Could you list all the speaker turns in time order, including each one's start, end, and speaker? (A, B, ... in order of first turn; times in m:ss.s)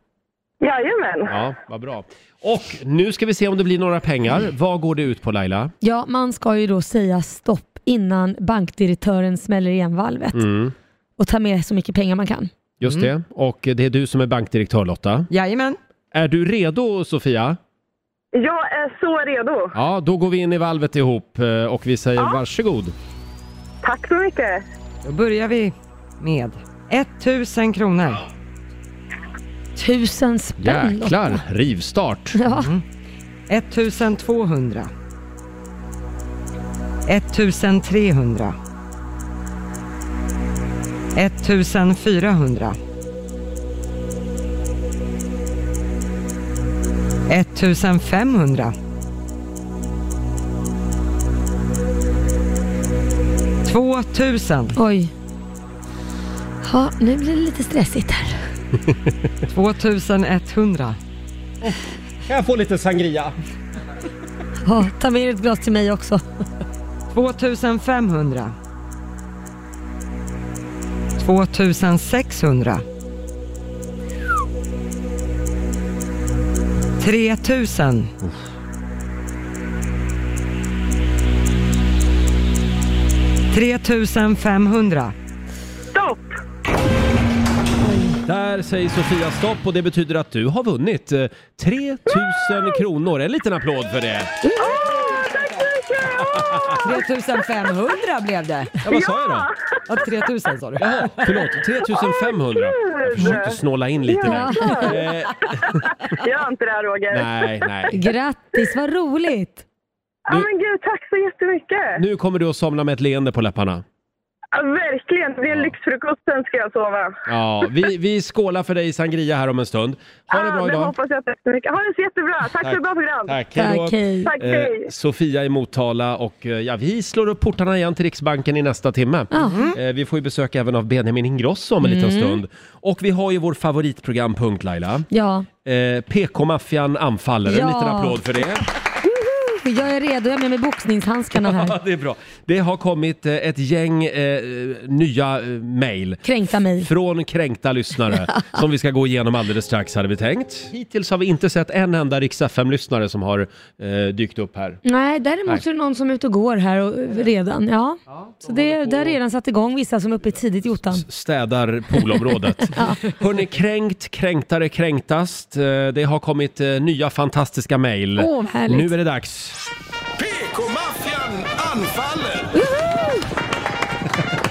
0:00.6-0:01.3 A
0:01.3-0:05.7 B
0:05.8-0:10.4 C
0:10.3-0:10.7 B
0:11.2-0:12.5 C
0:12.8-0:15.3 B
0:12.8-0:13.1 D
0:15.3-0:15.8 D
0:16.1-0:17.6 B
0:18.4-0:19.7 A
0:19.7-0:22.9 B
0:23.8-0:24.6 A
0:25.0-0:28.2 D
0:29.8-0:31.4 C
0:30.6-0:32.4 B
0:32.4-0:32.7 C
0:32.5-0:32.8 D
0:33.5-0:34.9 D
0:37.1-0:38.6 D
0:41.2-0:42.8 D
0:47.3-0:48.8 D
0:53.6-0:54.8 D
0:54.8-0:55.1 C
0:56.6-0:58.4 C
0:59.5-1:01.0 D
1:01.6-1:03.4 B
1:04.6-1:06.2 C
1:07.1-1:08.6 D
1:11.2-1:12.8 D
1:17.0-1:18.1 D
1:23.5-1:25.1 D
1:25.9-1:26.4 A
1:27.9-1:28.2 C
1:28.2-1:34.3 B
1:34.6-1:36.9 A
1:34.6-1:35.4 D
1:36.3-1:36.8 B
1:36.8-1:38.7 D
1:38.8-1:39.5 B
1:38.9-1:39.5 A
1:39.9-1:41.3 D
1:40.8-1:45.9 B
1:41.9-1:45.0 A
1:44.2-1:44.9 C
1:45.6-1:47.5 A
1:47.1-1:48.0 B
1:47.9-1:49.6 C
1:50.3-1:52.0 A
1:52.0-1:53.8 B
1:54.5-1:57.2 A
1:55.5-1:55.7 B
1:57.3-2:00.9 B
2:00.3-2:03.4 A
2:02.6-2:15.1 B
2:03.6-2:04.3 C
2:04.3-2:04.9 A
2:09.3-2:09.7 C
2:09.4-2:09.8 D
2:11.8-2:12.4 C
2:15.1-2:15.5 C
2:15.6-2:18.6 B
2:17.5-2:18.2 C
2:19.0-2:21.8 C
2:21.4-2:26.2 B
2:26.2-2:26.9 C
2:26.8-2:34.8 B
2:34.8-2:41.0 C
2:38.9-2:39.1 B
2:41.0-2:49.6 B
2:42.6-2:43.0 C
2:48.2-2:48.9 C
2:50.2-2:52.7 E
2:52.6-2:53.2 C